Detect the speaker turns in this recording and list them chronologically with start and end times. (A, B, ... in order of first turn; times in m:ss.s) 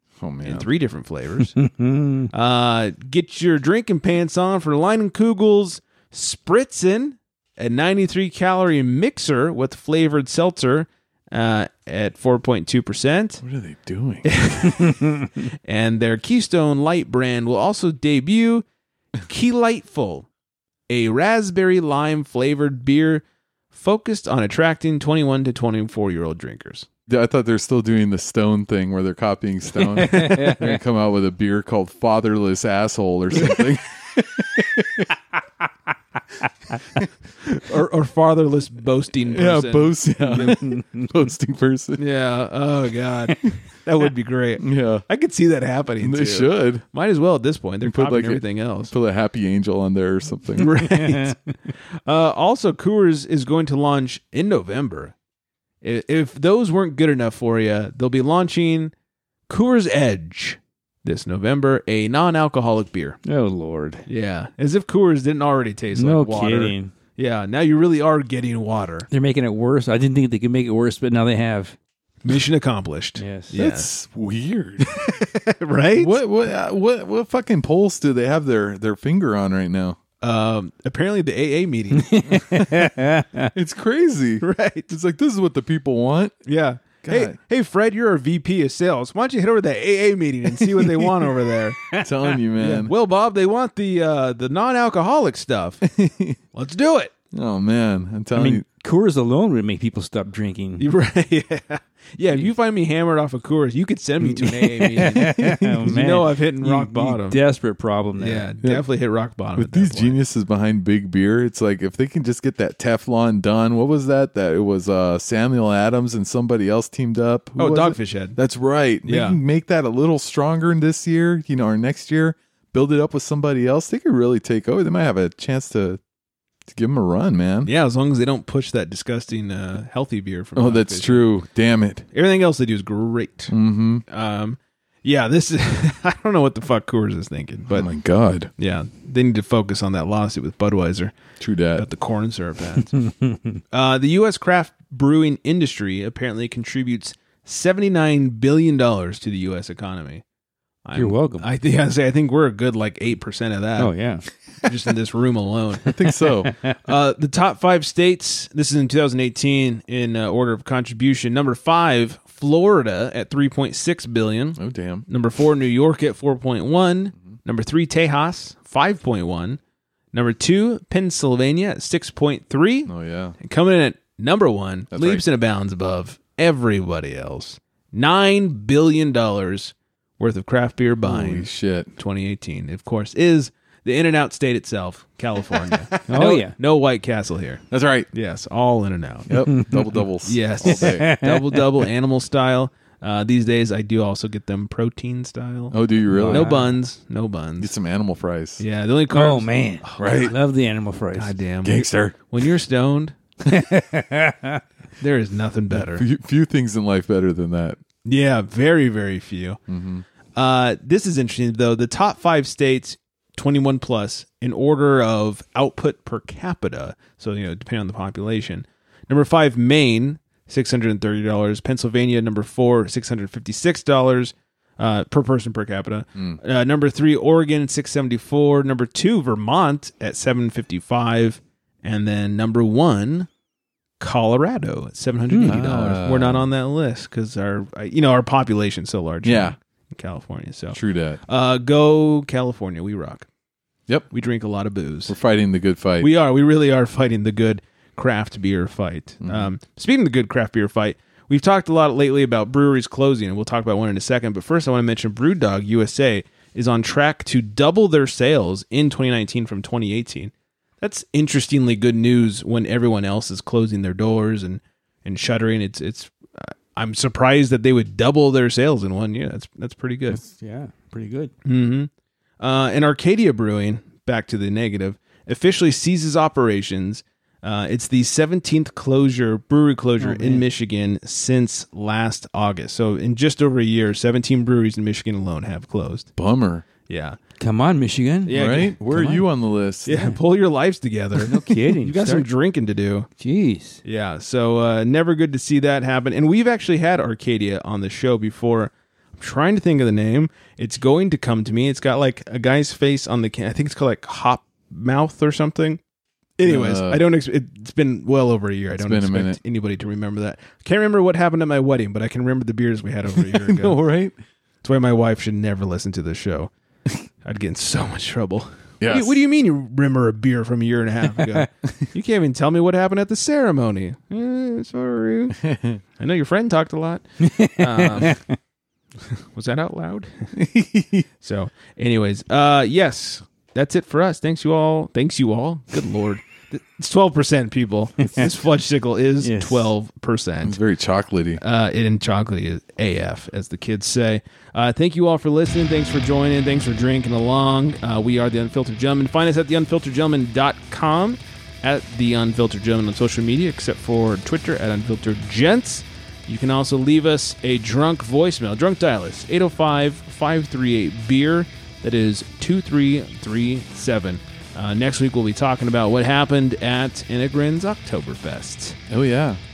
0:00.2-0:00.7 A
0:00.4-0:01.6 B
0:01.6-0:02.3 C
0:02.3-0:13.4 B
0:13.4-0:14.4 A
0:14.2-0:18.6 B
0:19.2-0:20.3 B
0:20.9-0:26.9 B
0:27.1-0:35.1 A
0:29.9-0:30.8 C
0:37.5-0:40.6 B
0:39.3-0:42.0 A
0:42.0-0:48.9 B
0:44.6-0:45.0 A
0:46.0-0:46.8 A
0:47.8-0:50.8 A
0:50.6-0:51.4 B
0:51.0-0:51.3 C
0:52.1-0:55.1 B
0:55.8-0:58.9 B
0:59.5-1:03.2 B
1:03.2-1:04.0 C
1:04.1-1:09.1 B
1:06.0-1:06.9 C
1:09.1-1:11.8 C
1:12.2-1:13.9 B
1:13.2-1:13.6 C
1:13.6-1:15.0 A
1:14.9-1:16.1 B
1:16.0-1:20.0 A
1:20.2-1:22.6 B
1:22.0-1:23.5 C
1:22.5-1:22.8 A
1:23.5-1:26.4 A
1:24.4-1:24.9 B
1:26.5-1:31.8 B
1:27.0-1:27.4 A
1:32.0-1:32.9 A
1:32.6-1:35.8 B
1:35.8-1:36.4 A
1:36.5-1:37.1 B
1:37.3-1:38.6 A
1:38.4-1:40.9 C
1:40.8-1:47.4 B
1:44.2-1:48.5 C
1:48.2-1:50.2 B
1:49.6-2:06.0 A
1:57.6-1:58.4 B
1:59.1-1:59.4 B
2:06.7-2:07.7 A
2:07.6-2:11.3 B
2:10.6-2:12.1 A
2:12.1-2:13.6 B
2:13.5-2:14.0 A
2:14.1-2:17.9 B
2:17.7-2:18.5 A
2:18.6-2:21.2 B
2:21.4-2:21.9 A
2:21.8-2:23.0 B
2:23.7-2:30.2 B
2:30.8-2:34.0 B
2:31.0-2:31.5 C
2:33.8-2:34.3 C
2:34.6-2:35.9 B
2:35.9-2:36.5 A
2:36.8-2:49.6 B
2:44.6-2:45.1 A
2:50.1-3:09.6 B
2:52.9-2:53.4 A
2:54.9-2:55.2 A
3:01.0-3:01.9 A
3:06.1-3:06.6 C
3:07.7-3:08.1 A
3:09.3-3:11.1 A
3:10.2-3:17.7 B
3:10.7-3:11.5 C
3:15.7-3:16.5 A
3:16.1-3:16.8 C
3:17.6-3:18.6 A
3:18.6-3:20.0 B
3:19.1-3:21.4 C
3:20.0-3:20.4 A
3:21.2-3:23.2 B
3:21.6-3:22.2 A
3:23.5-3:24.6 C
3:25.0-3:26.0 B
3:25.7-3:27.8 A
3:28.0-3:29.6 B
3:29.7-3:30.0 A
3:30.4-3:53.3 B
3:46.2-3:46.4 A
3:54.0-4:03.3 B
3:55.3-3:55.7 C
3:55.4-3:56.5 A
3:59.2-3:59.6 A
4:00.7-4:01.2 A
4:04.1-4:05.2 B
4:05.1-4:06.1 A
4:06.0-4:30.2 B
4:09.2-4:09.5 A
4:30.1-4:31.3 C
4:31.4-4:46.1 B
4:40.0-4:40.4 C
4:46.2-4:46.6 A
4:46.9-4:47.2 B
4:47.4-4:49.2 C
4:48.3-4:48.8 B
4:48.3-4:50.1 A
4:49.9-4:53.1 B
4:51.2-4:52.3 C
4:53.2-4:53.8 C
4:53.8-5:05.8 B
5:06.4-5:13.8 B
5:06.4-5:07.0 A
5:08.8-5:09.4 A
5:13.2-5:14.2 A
5:14.6-5:16.5 B
5:17.2-5:25.4 B
5:18.8-5:19.2 A
5:21.2-5:21.4 C
5:25.4-5:25.8 A
5:26.0-5:28.2 B
5:27.2-5:28.4 C
5:29.3-5:30.3 B
5:30.4-5:31.1 A
5:31.2-5:40.6 B
5:39.2-5:39.7 C
5:40.4-5:41.4 A
5:41.4-6:08.8 B
6:08.9-6:09.4 A